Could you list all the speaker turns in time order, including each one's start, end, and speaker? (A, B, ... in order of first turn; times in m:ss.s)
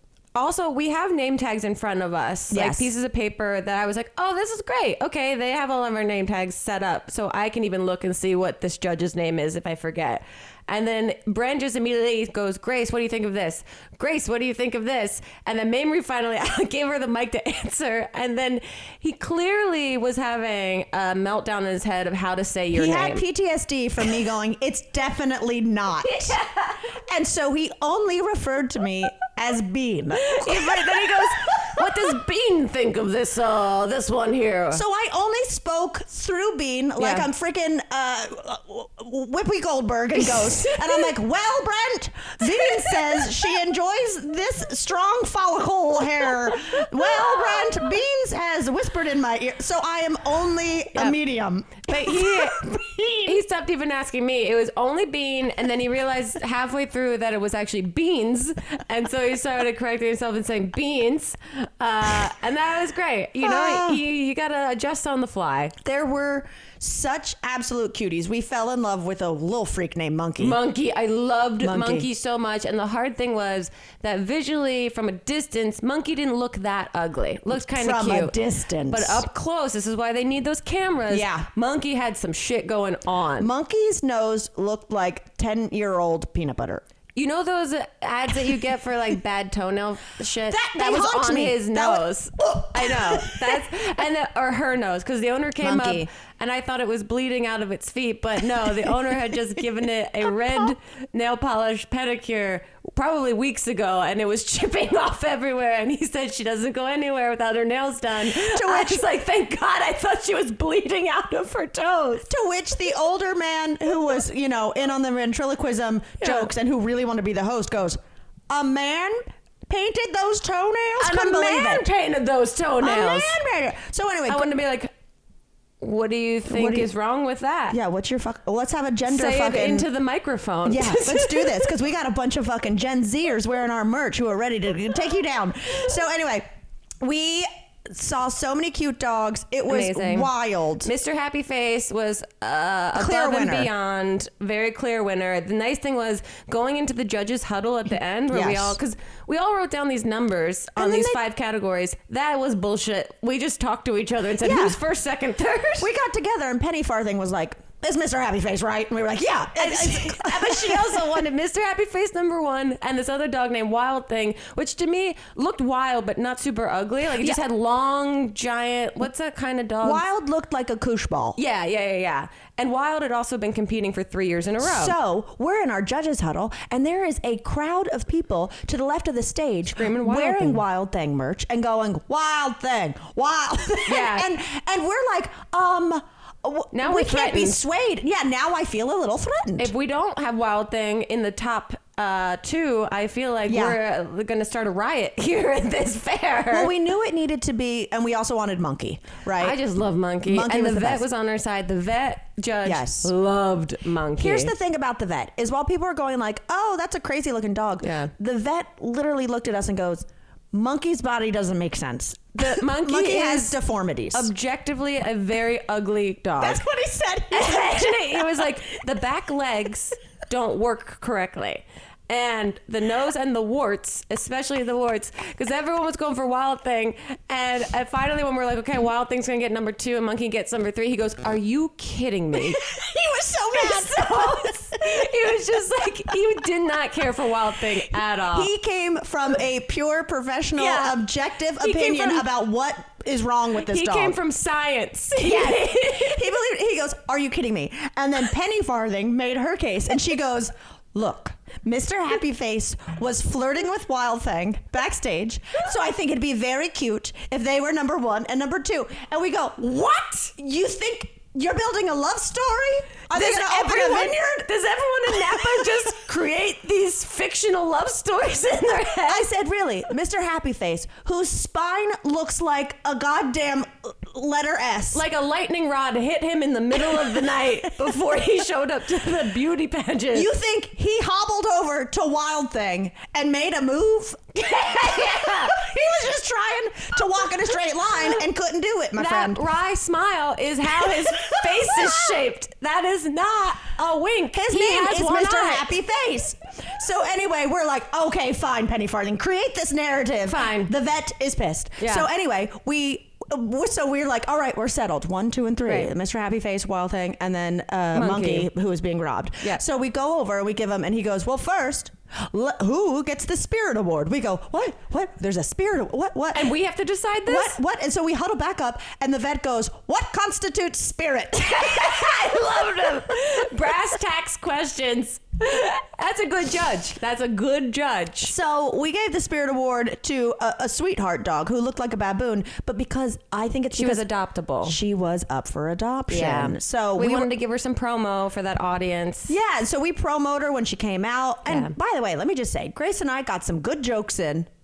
0:00.4-0:23.2 A
0:02.5-0:02.9 B
0:22.7-0:26.4 B
0:26.0-0:26.9 A
0:27.1-0:32.2 B
0:30.2-0:34.8 A
0:34.7-0:53.4 B
0:37.0-0:37.3 A
0:40.2-0:41.0 A
0:42.6-0:43.2 A
0:51.9-0:52.6 A
0:53.2-1:05.8 A
1:03.4-1:04.0 B
1:05.8-1:10.6 B
1:10.4-1:18.4 A
1:11.6-1:12.1 B
1:17.5-1:19.2 B
1:18.9-1:23.5 A
1:21.1-1:21.5 B
1:23.4-1:26.8 B
1:27.2-1:52.3 A
1:30.5-1:33.7 B
1:35.6-1:36.1 B
1:48.3-1:49.0 B
1:52.3-1:58.0 B
1:56.2-1:56.5 A
1:58.5-2:01.8 B
2:01.0-2:03.4 A
2:02.8-2:04.5 B
2:04.3-2:04.9 A
2:05.8-2:07.8 A
2:06.5-2:06.9 B
2:07.7-2:09.9 B
2:09.1-2:11.7 A
2:10.7-2:16.5 B
2:17.0-2:20.9 B
2:19.7-2:20.3 A
2:20.8-2:35.9 A
2:22.9-2:23.7 B
2:28.3-2:28.8 B
2:30.8-2:31.2 B
2:34.4-2:34.8 B
2:35.8-2:41.1 B
2:39.6-2:50.0 A
2:49.8-2:51.4 B
2:51.4-2:55.0 A
2:54.6-3:09.7 B
2:59.8-3:00.6 A
3:03.9-3:04.3 A
3:06.7-3:07.6 A
3:09.6-3:16.7 A
3:13.5-3:13.8 B
3:16.5-3:19.6 B
3:19.4-3:24.5 A
3:20.2-3:21.0 B
3:22.6-3:23.1 B
3:24.2-3:34.3 B
3:27.8-3:28.1 A
3:32.4-3:33.6 A
3:34.1-3:36.6 A
3:36.4-3:38.6 B
3:37.3-3:52.6 A
3:52.4-3:55.4 B
3:53.5-3:58.5 A
3:58.3-4:04.2 B
4:00.6-4:01.0 A
4:01.6-4:02.3 A
4:03.6-4:06.2 A
4:05.2-4:24.5 B
4:23.1-4:29.3 A
4:29.1-4:35.0 B
4:34.9-4:40.3 A
4:40.1-4:49.4 B
4:44.4-4:45.6 A
4:49.0-4:55.7 A
4:50.8-4:52.2 B
4:54.3-5:16.5 B
5:00.3-5:00.7 A
5:01.8-5:02.1 A
5:07.9-5:08.5 A
5:16.4-5:17.6 A
5:17.3-5:22.5 B
5:21.4-5:28.3 A
5:28.3-5:34.1 B
5:33.7-5:34.8 A
5:34.6-5:37.3 B
5:36.1-5:39.3 A
5:39.3-5:44.5 B
5:41.5-5:41.8 A